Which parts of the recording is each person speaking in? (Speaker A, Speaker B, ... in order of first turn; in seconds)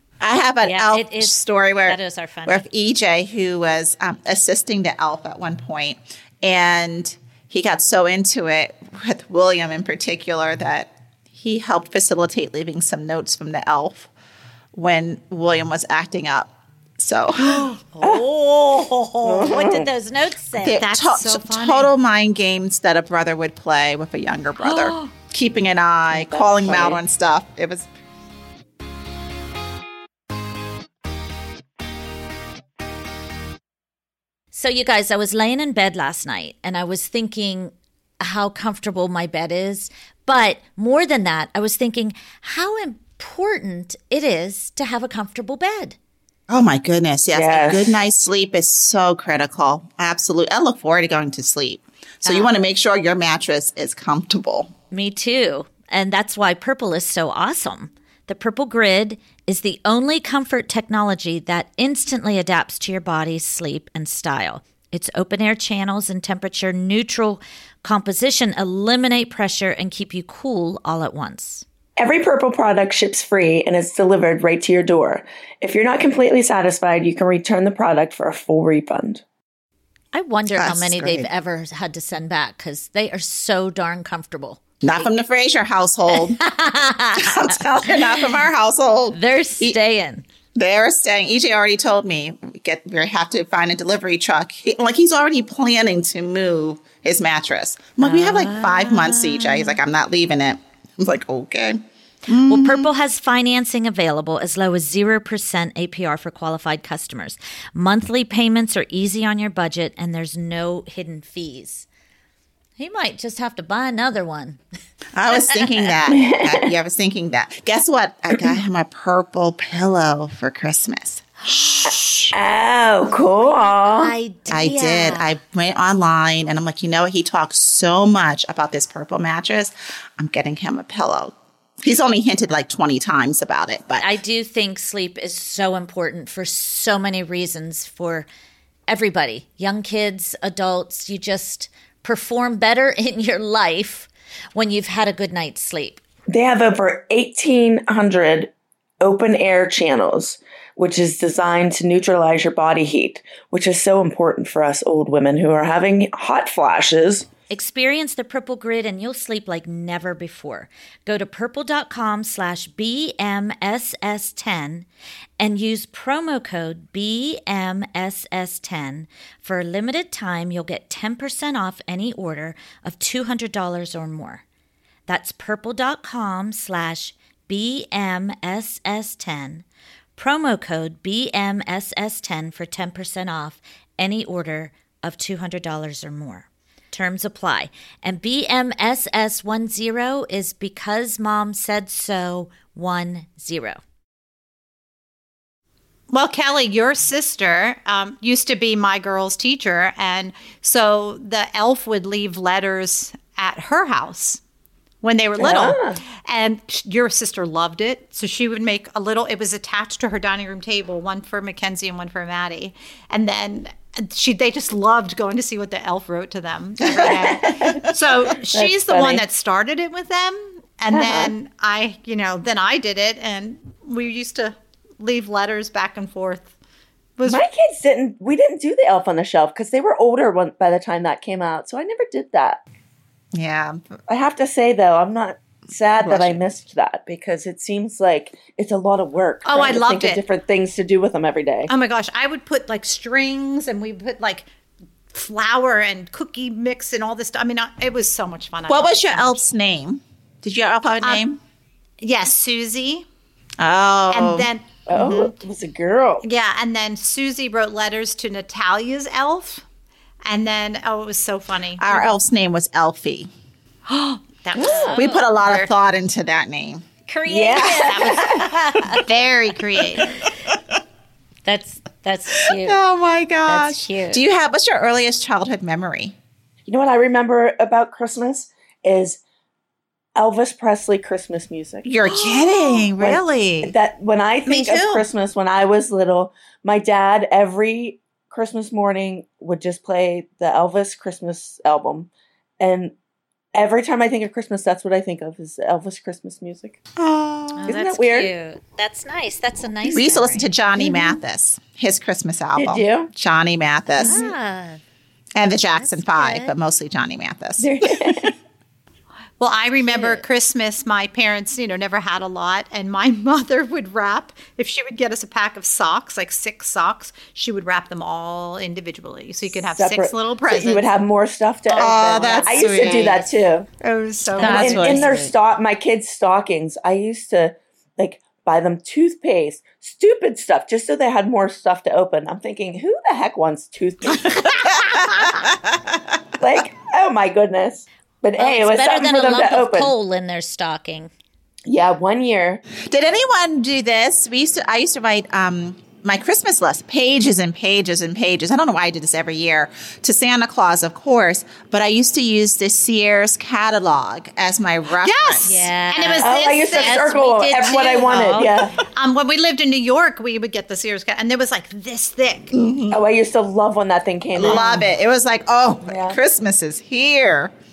Speaker A: 0.2-14.1, 14.7-17.7, 20.6-27.9, 46.5-54.7, 80.5-81.3, 84.8-86.5, 87.1-89.8, 90.5-102.9, 115.1-122.3, 124.5-134.1, 216.8-217.9, 233.3-233.8, 236.0-236.4, 248.7-251.4, 253.6-254.5, 261.8-263.3, 264.9-266.8, 270.0-270.6, 272.5-276.1, 281.8-283.7, 297.0-297.7, 299.9-304.2, 305.3-308.3, 321.8-323.2, 324.4-325.3, 334.2-336.0, 342.9-355.6, 362.5-363.0, 364.4-367.5
Speaker B: 0.6-2.6, 17.9-20.8, 34.5-46.0, 54.9-71.6, 80.1-84.6, 86.4-88.2, 89.1-90.2, 98.0-99.8, 102.5-111.9, 112.8-114.6, 115.3-115.9, 121.5-122.3, 123.2-125.3, 134.0-138.3, 138.9-146.0, 157.5-164.9, 165.4-174.4, 175.1-179.6, 180.2-193.8, 264.6-265.2, 267.1-269.0, 271.4-272.8, 273.5-274.2, 284.4-285.1, 297.5-300.5, 303.9-304.8, 305.8-306.5, 309.9-310.2, 324.4-325.3, 338.4-341.1, 355.4-358.7
Speaker C: 19.2-19.9, 26.1-27.0, 47.3-47.9, 72.0-79.2, 116.1-116.7, 122.3-124.1, 146.3-148.5, 149.0-157.3, 205.4-206.0, 216.9-217.8, 218.5-219.2, 220.9-221.3, 227.2-232.6, 234.1-241.7, 254.9-256.2, 264.5-265.0, 267.3-268.5, 276.6-279.2, 280.1-281.9, 283.0-292.9, 293.5-296.8, 297.6-298.3, 300.8-301.2, 302.6-303.1, 304.0-304.3, 307.6-308.3, 319.5-323.7, 324.4-334.6, 336.4-339.9, 341.7-342.6, 356.2-358.8, 362.9-364.8, 365.9-366.2
Speaker D: 20.8-21.9, 24.6-25.0, 196.1-204.4, 205.0-226.5, 227.2-227.4, 239.4-240.2, 241.7-244.5, 245.1-249.4, 252.0-253.0, 254.1-255.3, 256.2-259.6, 260.2-262.1, 263.9-265.7, 267.7-270.1, 309.4-320.9, 321.7-323.3, 323.8-325.1, 355.0-362.5